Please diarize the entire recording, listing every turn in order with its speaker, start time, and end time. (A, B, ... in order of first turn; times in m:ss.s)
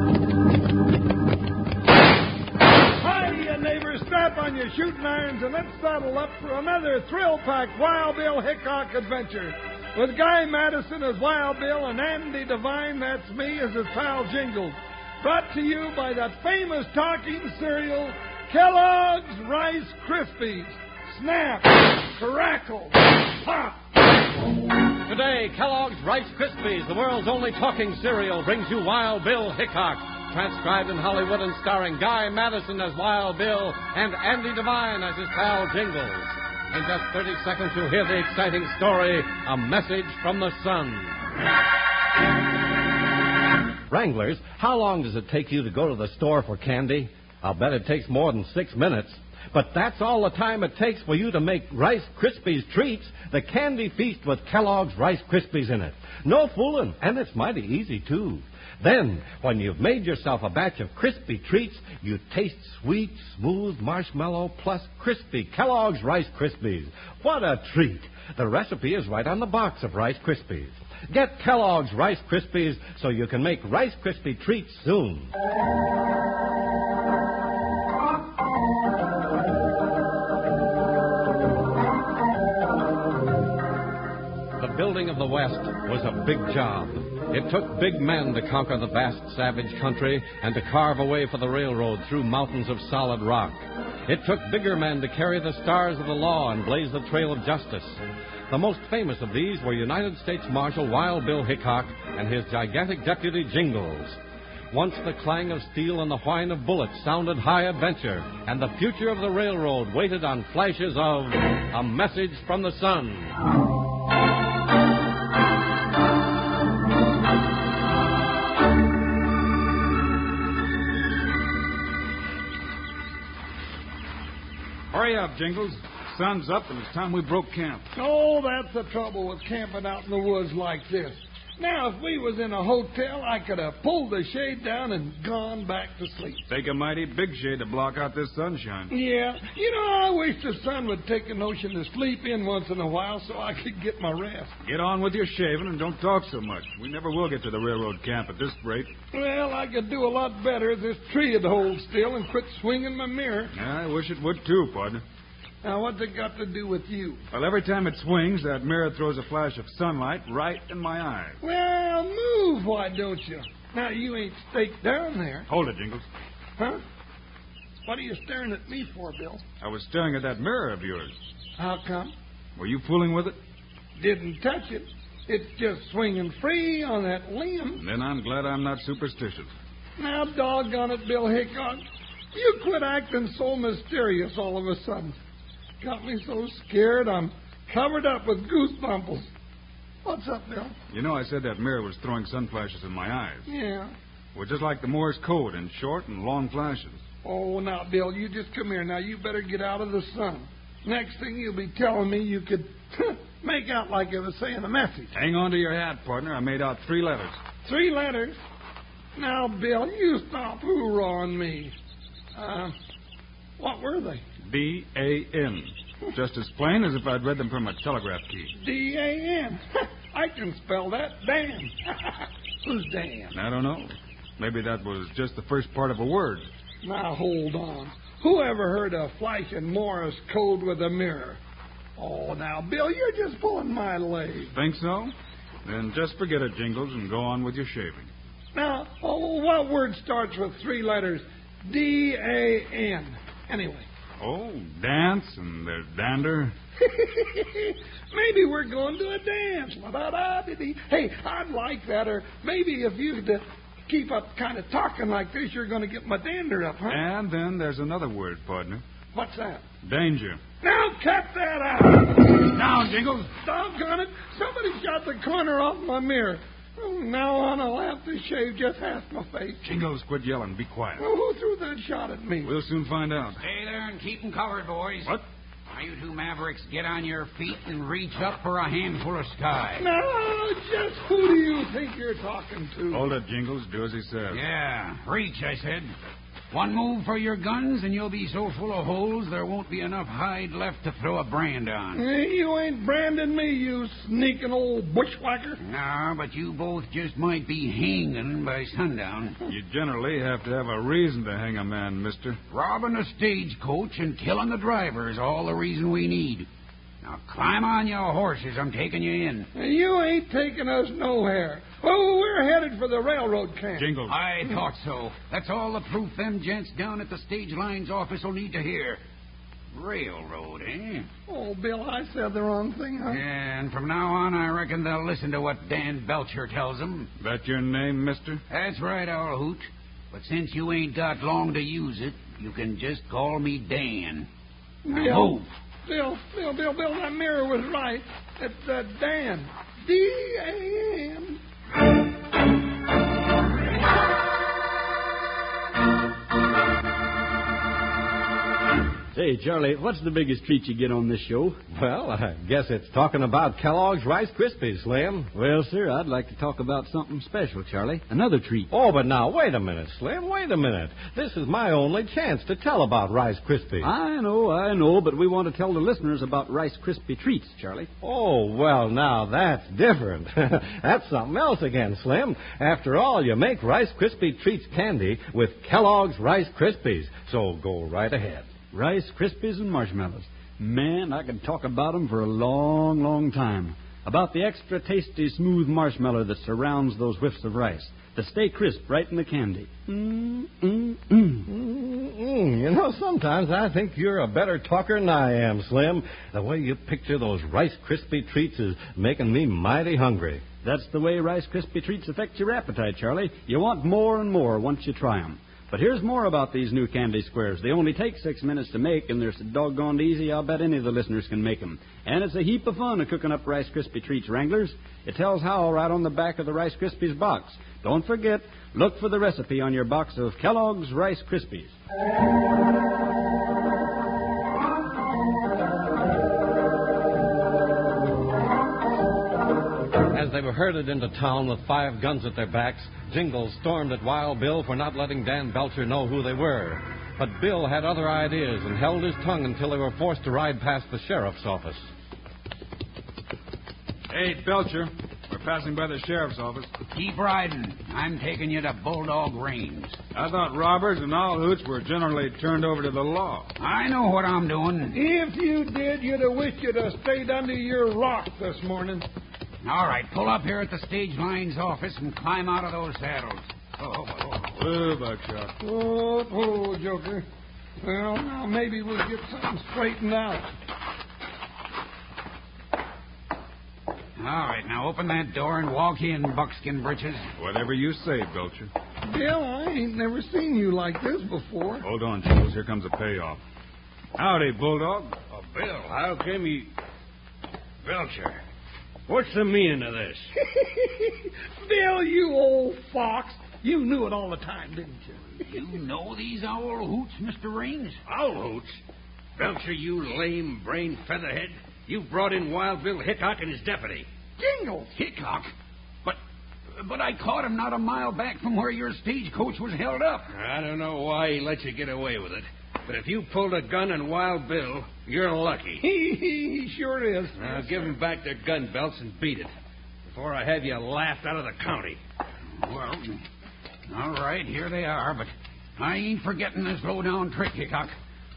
0:03.0-0:23.8 A
0:25.0-0:41.2 B
0:43.9-1:15.3 B
1:24.6-1:44.2 B
1:44.7-1:53.4 B
2:04.9-2:07.8 C
2:07.9-2:16.4 A
2:16.5-2:18.9 C
2:18.9-2:24.5 A
2:24.6-2:28.9 C
2:29.1-2:33.5 A
2:33.5-2:35.0 C
2:35.6-2:37.2 A
2:37.3-2:41.4 C
2:41.4-2:45.5 A
2:45.5-2:46.0 C
2:47.8-2:49.4 A
2:49.6-2:51.1 C
2:51.6-2:52.1 A
2:52.6-2:53.4 C
2:54.0-2:57.8 A
2:57.8-2:59.5 C
3:00.0-3:05.2 A
3:05.8-3:09.3 A
3:10.0-3:10.7 A
3:10.9-3:13.5 C
3:13.5-3:13.9 A
3:14.3-3:17.0 C
3:17.2-3:25.1 A
3:25.1-3:27.4 C
3:27.6-3:28.4 A
3:29.2-3:31.7 A
3:32.4-3:32.7 A
3:33.6-3:34.2 A
3:34.4-3:38.5 C
3:38.6-3:43.3 A
3:43.3-3:46.4 C
3:46.8-3:51.4 A
3:52.0-3:54.5 A
3:54.5-3:55.1 C
3:55.6-3:58.1 C
3:58.5-4:03.8 A
4:04.2-4:06.5 C
4:06.8-4:17.0 A
4:16.9-4:18.8 C
4:19.1-4:19.6 A
4:19.8-4:20.4 C
4:20.6-4:22.4 A
4:22.5-4:23.3 C
4:23.2-4:29.6 A
4:29.6-4:31.0 C
4:31.0-4:32.5 A
4:32.4-4:33.4 C
4:33.4-4:35.1 D
4:35.7-4:39.8 D
4:39.8-4:43.1 A
4:42.9-4:44.4 C
4:44.3-4:45.9 D
4:46.5-4:52.0 D
4:51.9-4:55.6 A
4:55.6-4:59.4 D
4:59.4-5:02.4 C
5:02.5-5:06.5 D
5:07.0-5:09.5 D
5:09.5-5:13.9 A
5:13.8-5:14.2 C
5:14.1-5:19.0 D
5:19.7-5:21.1 D
5:21.3-5:23.2 A
5:23.1-5:27.1 D
5:27.2-5:28.4 C
5:28.5-5:34.3 D
5:34.8-5:41.4 A
5:34.9-5:35.5 D
5:49.1-5:51.6 E
5:51.7-5:55.3 B
5:55.3-5:58.7 E
5:58.7-6:03.9 B
6:03.8-6:07.9 E
6:08.0-6:18.5 B
6:18.7-6:31.4 E
6:31.4-6:40.4 B
6:40.6-7:01.7 E
7:10.1-7:21.9 B
7:24.1-7:26.7 C
7:26.9-7:30.0 D
7:30.1-7:33.5 C
7:33.6-7:35.0 D
7:34.9-7:39.0 A
7:39.6-7:44.4 D
7:44.5-7:45.5 C
7:45.6-7:47.2 A
7:47.8-7:50.5 A
7:54.2-7:57.3 D
7:57.4-7:58.7 C
7:59.0-8:01.8 A
8:01.8-8:03.4 C
8:04.2-8:05.2 C
8:05.3-8:06.7 F
8:07.8-8:08.4 F
8:09.1-8:10.3 F
8:10.5-8:15.2 A
8:15.4-8:18.0 D
8:18.1-8:18.8 F
8:19.4-8:24.1 F
8:24.4-8:24.9 A
8:24.9-8:25.5 D
8:26.7-8:30.3 D
8:30.3-8:35.8 F
8:35.8-8:37.9 A
8:37.4-8:39.5 F
8:40.1-8:42.0 F
8:42.6-8:43.2 D
8:43.9-8:47.9 D